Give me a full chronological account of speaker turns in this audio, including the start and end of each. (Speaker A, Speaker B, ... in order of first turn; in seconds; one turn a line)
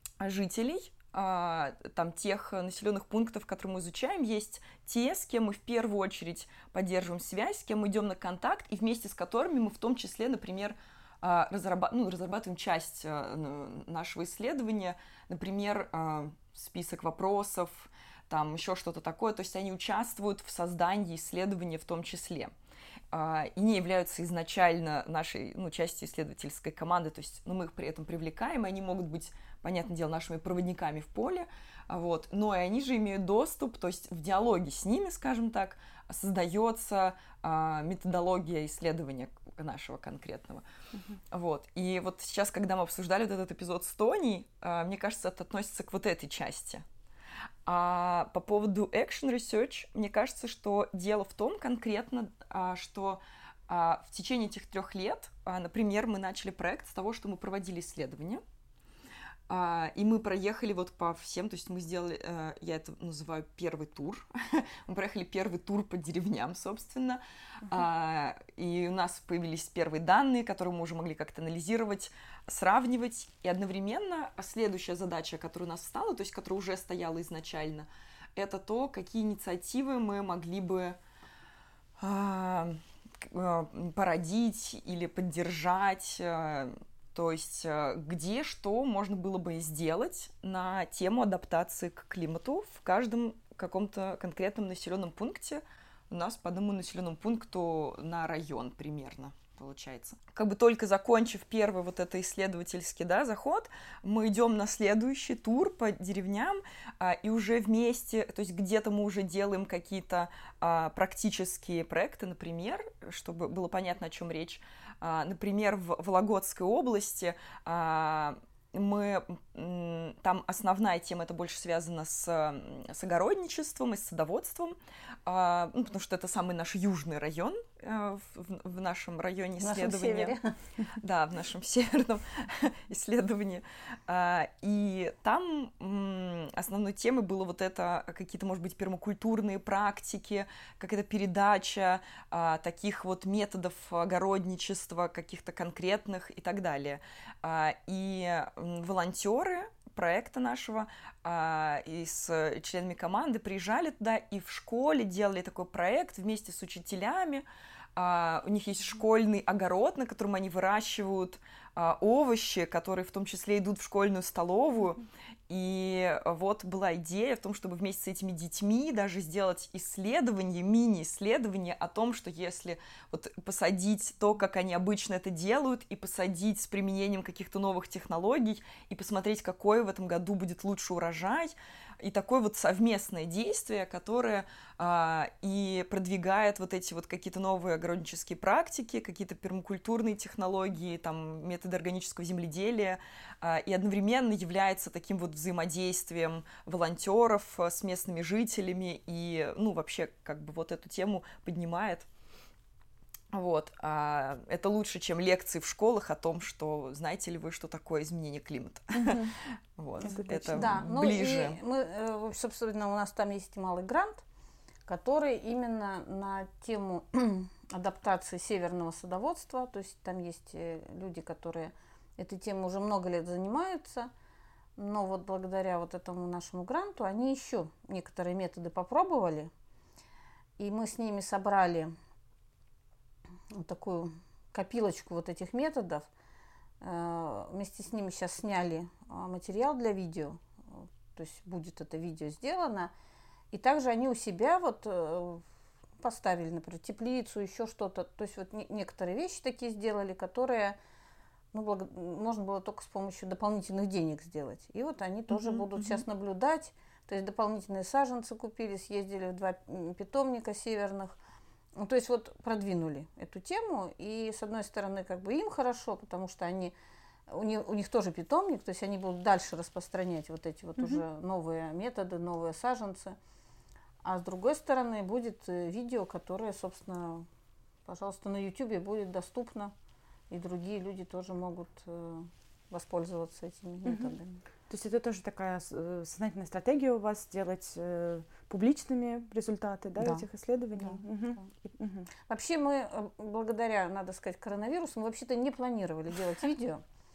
Speaker A: 0.2-22.5
Speaker A: 23.1-40.6
Speaker B: 40.9-41.2
Speaker A: 41.3-46.8
Speaker A: 47.6-58.4
Speaker A: 59.5-81.0
Speaker A: 82.0-130.3
Speaker C: 129.6-130.5
Speaker A: 130.9-202.1
Speaker A: 203.3-211.6
Speaker B: 208.9-209.3
Speaker B: 210.0-210.8
Speaker C: 210.5-214.2
Speaker C: 214.9-224.1
Speaker C: 224.8-229.5
Speaker C: 230.6-231.9
Speaker C: 233.5-236.1
Speaker C: 236.8-242.9
Speaker C: 243.5-245.4
Speaker C: 246.0-250.8
Speaker C: 251.5-261.1
Speaker A: 255.3-256.0
Speaker C: 261.8-266.7
Speaker C: 267.3-273.2
Speaker B: 270.8-271.0
Speaker C: 274.0-277.3
Speaker C: 277.9-279.7
Speaker C: 280.3-284.4
Speaker B: 283.8-284.1
Speaker B: 284.7-292.1
Speaker C: 290.0-291.4
Speaker C: 292.3-296.8